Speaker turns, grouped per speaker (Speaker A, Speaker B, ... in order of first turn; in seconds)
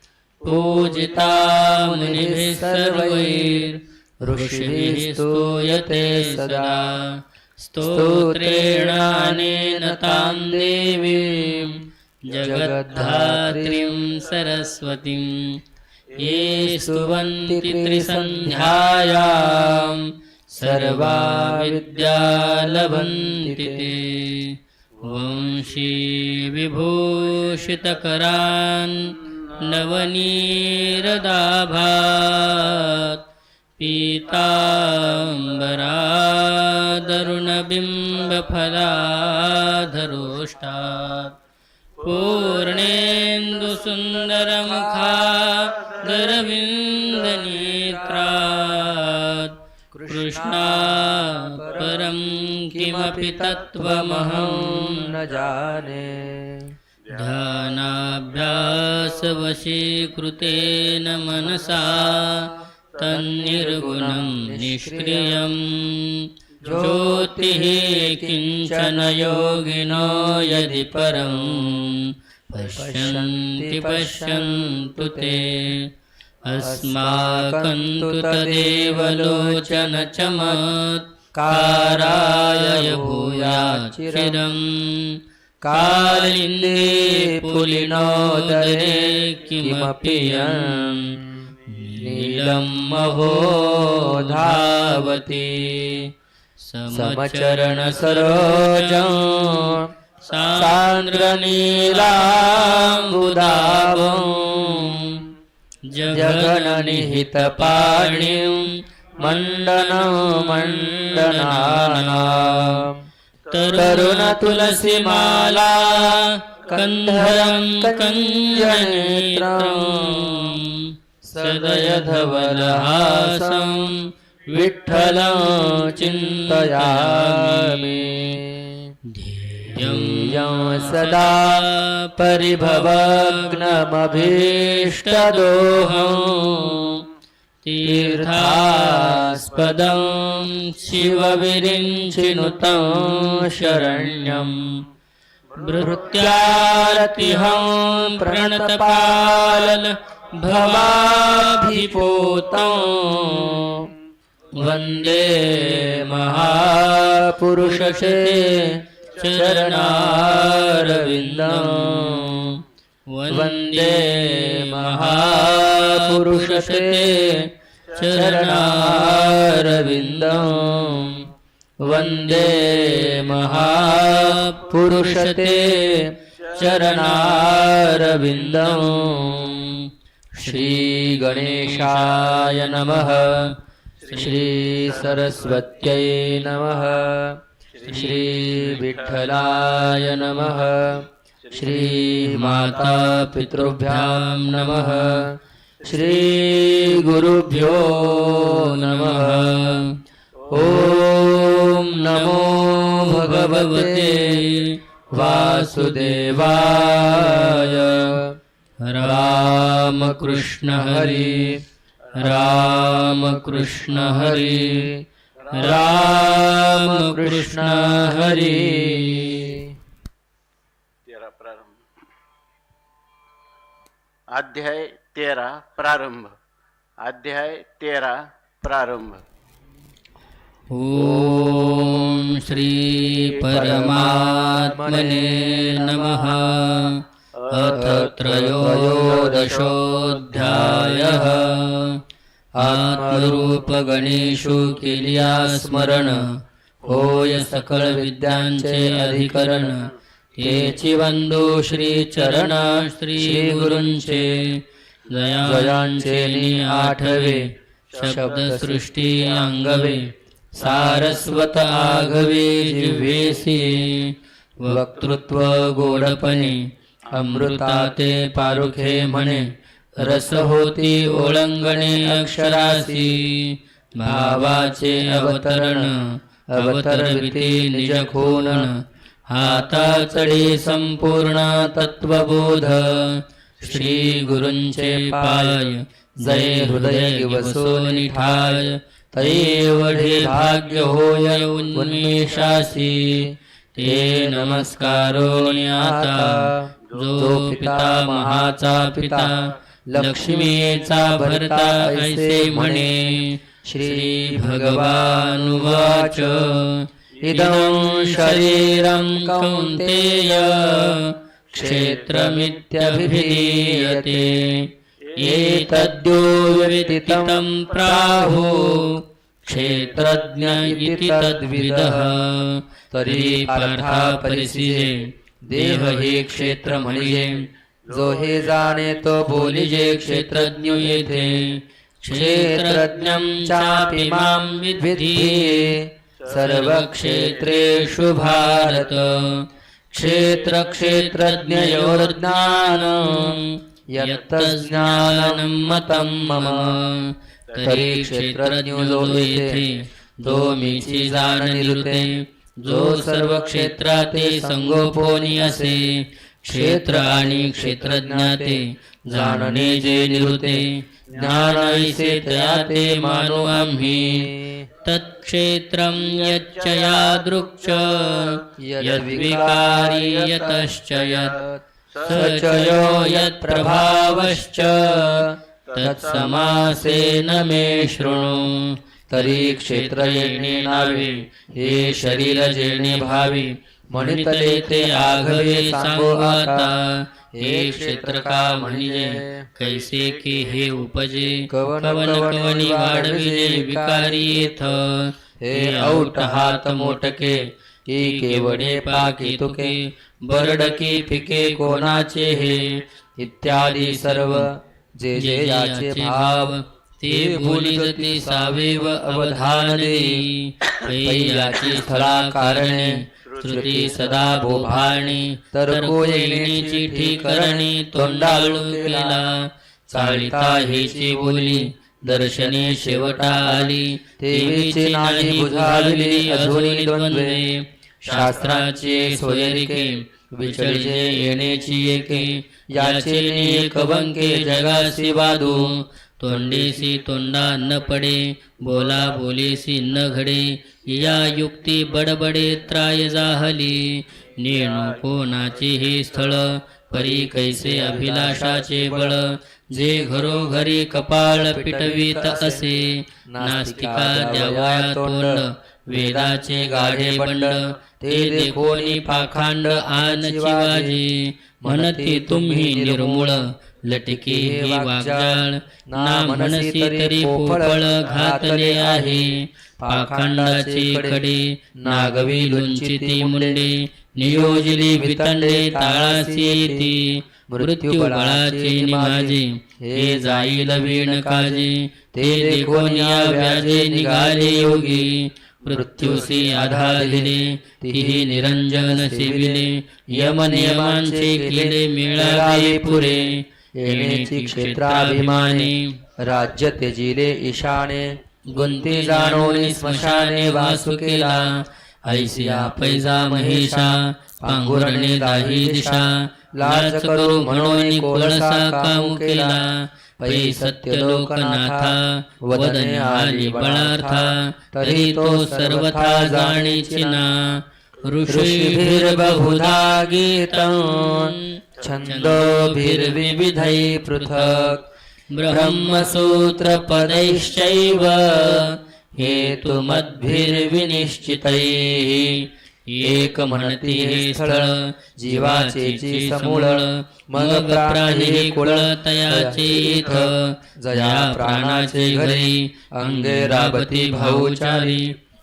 Speaker A: 0.4-15.6, 16.2-33.2, 33.8-41.4, 42.0-55.2, 57.1-75.9, 76.4-96.0, 96.6-105.3, 105.8-112.9, 113.5-128.4, 129.0-137.0, 137.6-144.8, 145.5-153.6, 154.5-171.2, 171.8-183.5, 184.1-185.6, 187.8-188.9, 189.8-190.6, 191.7-195.2, 195.9-200.0, 200.5-208.0, 208.8-211.6, 212.2-214.9, 215.5-219.6, 230.7-242.0, 242.6-269.5, 270.0-276.0, 276.6-327.4, 329.3-335.8, 336.3-371.4, 372.0-402.8, 403.4-404.5, 405.1-496.0, 498.5-524.8, 525.3-532.3, 532.9-545.1
Speaker B: 0.4-7.0, 7.8-14.0, 16.2-20.0, 20.6-23.9, 44.0-49.0, 49.9-56.7, 61.4-65.5, 66.6-71.8, 72.5-75.7, 76.5-80.6, 81.3-84.5, 85.6-96.1, 96.9-99.9, 100.5-105.3, 106.1-113.0, 113.7-120.6, 121.2-123.9, 124.5-128.9, 129.7-131.7, 132.4-137.0, 137.8-144.6, 145.6-149.8, 150.4-153.9, 154.6-162.6, 163.3-171.3, 171.8-179.8, 180.4-183.6, 184.1-199.6, 200.5-204.5, 205.1-208.3, 209.0-211.6, 212.2-219.7, 230.9-232.2, 233.2-236.4, 237.6-239.8, 240.3-241.6, 242.6-246.3, 246.8-249.9, 250.4-254.5, 255.4-260.0, 260.6-263.6, 264.6-266.6, 267.1-273.3, 274.0-275.9, 276.5-278.7, 279.4-282.0, 283.6-306.6, 307.2-311.0, 311.5-314.4, 315.1-319.0, 319.6-322.1, 322.9-339.2, 339.9-346.8, 347.6-349.7, 350.2-355.8, 356.5-364.7, 368.6-370.6, 371.2-377.2, 379.1-386.7, 387.3-389.5, 391.5-394.6, 395.4-397.4, 397.9-410.3, 410.8-419.2, 419.9-427.4, 428.1-436.9, 446.9-449.2, 451.3-452.7, 453.3-461.0, 461.6-463.4, 464.1-471.2, 471.8-473.7, 474.2-476.9, 477.5-485.1, 485.6-493.2, 493.8-509.6, 510.2-517.2, 518.2-524.9, 525.5-532.4, 533.0-545.0
Speaker C: 25.0-25.6, 34.6-35.3, 42.0-43.8, 57.1-59.2, 63.0-63.6, 184.1-184.5, 186.6-187.1, 187.8-189.7, 191.5-191.8, 215.5-215.9, 221.1-221.7, 224.3-226.3, 227.0-229.2, 237.4-237.9, 239.2-240.2, 258.0-258.3, 327.9-328.9, 366.1-368.3, 370.9-371.3, 389.6-390.7, 444.5-446.4